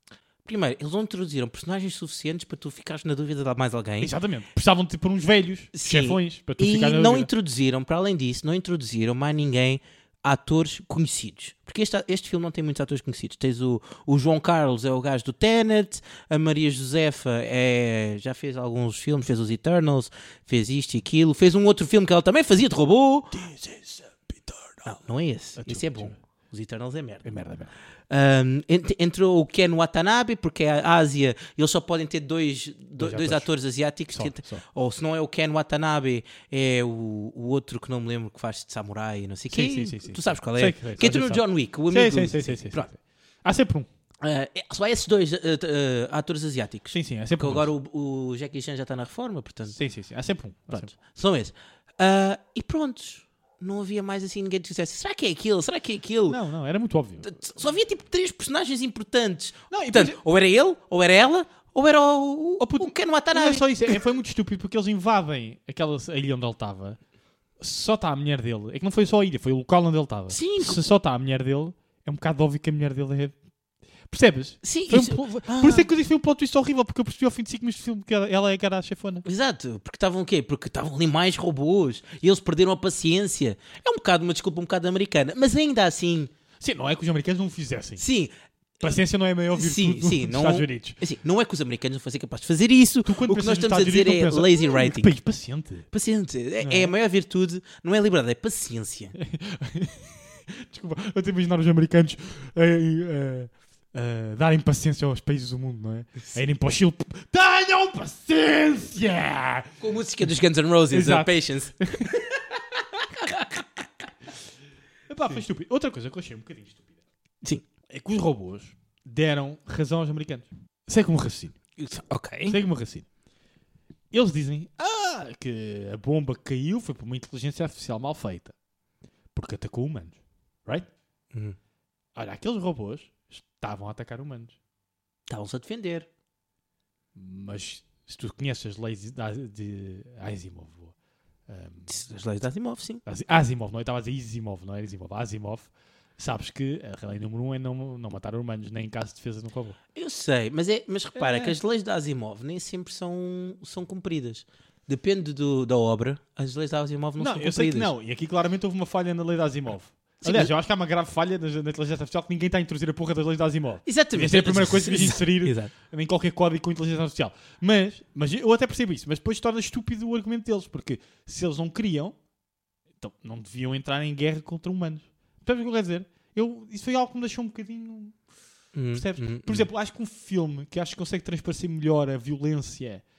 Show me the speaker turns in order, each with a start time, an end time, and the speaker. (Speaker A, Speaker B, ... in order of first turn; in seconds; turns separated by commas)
Speaker A: 0.4-4.1, Speaker B: 4.0-7.3, Speaker A: 5.7-23.3, Speaker B: 23.3-24.9, Speaker A: 24.9-27.3, Speaker B: 25.5-26.2, Speaker B: 27.2-27.7, Speaker A: 28.1-42.9, Speaker B: 33.0-33.5, Speaker B: 34.1-34.6, Speaker B: 39.5-43.9, Speaker A: 44.2-49.8, Speaker B: 46.9-47.7, Speaker B: 49.7-50.9, Speaker A: 50.7-56.4, Speaker B: 56.3-57.3, Speaker A: 57.2-64.0, Speaker B: 59.7-60.2, Speaker B: 62.6-67.0, Speaker B: 67.6-73.3, Speaker A: 70.3-70.8, Speaker B: 74.1-79.2, Speaker A: 74.6-75.9, Speaker A: 79.2-86.3, Speaker B: 86.6-88.0, Speaker A: 88.0-89.0, Speaker B: 88.8-91.0, Speaker A: 89.5-95.1, Speaker B: 93.0-95.9, Speaker A: 95.9-99.1, Speaker B: 96.6-96.9, Speaker B: 99.1-109.8, Speaker A: 109.8-114.0, Speaker B: 110.9-112.1, Speaker B: 115.1-116.8, Speaker B: 117.9-121.5, Speaker A: 121.8-122.6, Speaker B: 122.5-123.0, Speaker B: 124.1-128.5, Speaker B: 129.3-130.9, Speaker A: 131.3-131.6, Speaker B: 132.2-134.6, Speaker A: 135.3-136.1, Speaker B: 137.1-140.9, Speaker B: 141.5-142.0, Speaker A: 141.9-143.0, Speaker B: 143.0-149.8, Speaker A: 149.9-157.9, Speaker B: 151.2-151.6, Speaker B: 157.2-172.2, Speaker A: 160.2-160.5, Speaker A: 163.8-165.7, Speaker B: 173.0-178.2, Speaker A: 178.7-179.7, Speaker B: 178.9-183.0